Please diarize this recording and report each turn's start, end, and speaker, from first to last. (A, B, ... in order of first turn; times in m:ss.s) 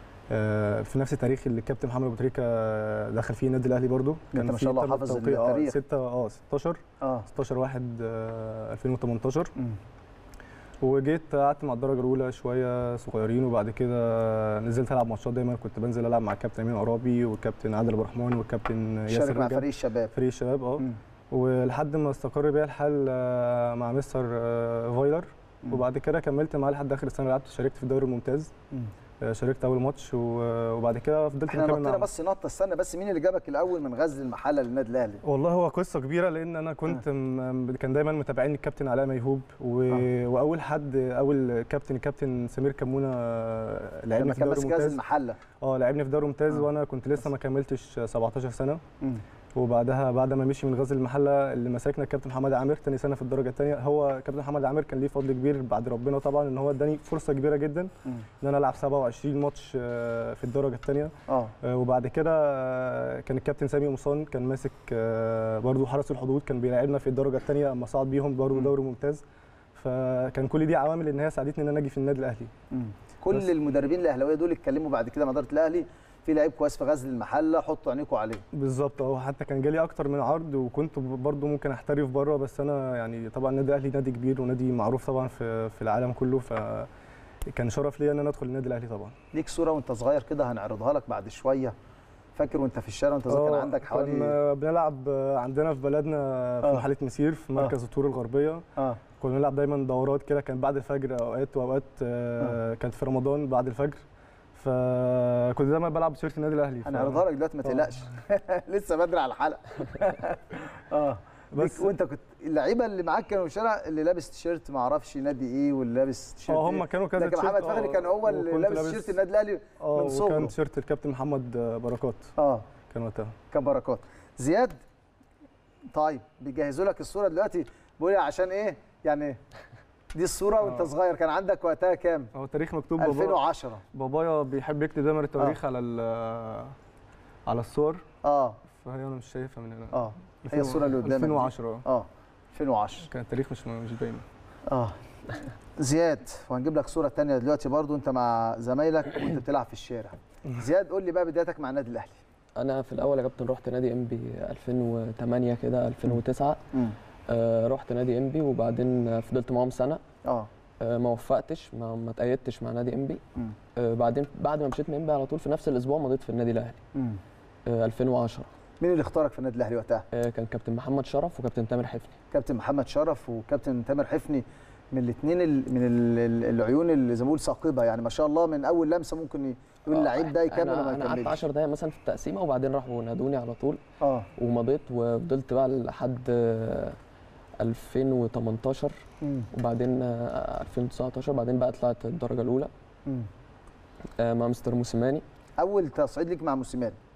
0:00.3-0:09.5 A
0:04.3-0:05.8 B
0:07.0-0:07.3 B
0:10.8-0:28.5 A
0:19.1-0:20.1 B
0:29.2-0:32.1 A
0:31.5-0:35.2 B
0:35.2-0:45.0 A
0:44.1-0:45.4 B
0:45.6-0:48.8 A
0:49.5-1:09.2 A
1:01.3-1:01.5 B
1:09.7-1:12.5 A
1:12.7-1:18.4 B
1:18.5-1:26.9 A
1:27.5-1:29.1 A
1:29.3-1:31.7 B
1:32.4-1:34.3 B
1:33.3-1:38.6 A
1:39.2-1:47.2 A
1:46.8-2:00.5 B
1:51.5-1:51.9 A
1:56.5-1:59.1 A
1:59.8-2:02.3 A
2:02.4-2:02.6 B
2:02.9-2:03.3 A
2:03.5-2:04.8 B
2:05.9-2:09.4 B
2:10.1-2:12.3 B
2:10.6-2:10.9 A
2:12.3-2:13.4 A
2:13.0-2:13.8 B
2:13.9-2:16.8 A
2:17.4-2:18.0 A
2:18.2-2:18.6 B
2:18.7-2:21.8 A
2:19.9-2:23.1 B
2:23.0-2:24.2 A
2:24.7-2:25.0 B
2:25.8-2:32.2 B
2:32.6-2:36.6 C
2:37.3-2:40.0 C
2:40.8-2:43.2 C
2:43.8-2:46.8 C
2:46.9-2:47.2 B
2:47.6-2:48.5 C
2:48.8-2:50.1 B
2:50.1-2:52.1 C
2:52.3-3:01.4 B
2:59.9-3:03.8 C
3:04.0-3:04.3 B
3:04.4-3:07.0 C
3:07.6-3:09.0 C
3:09.2-3:09.5 B
3:09.5-3:12.7 C
3:14.2-3:15.2 C
3:15.6-3:17.0 B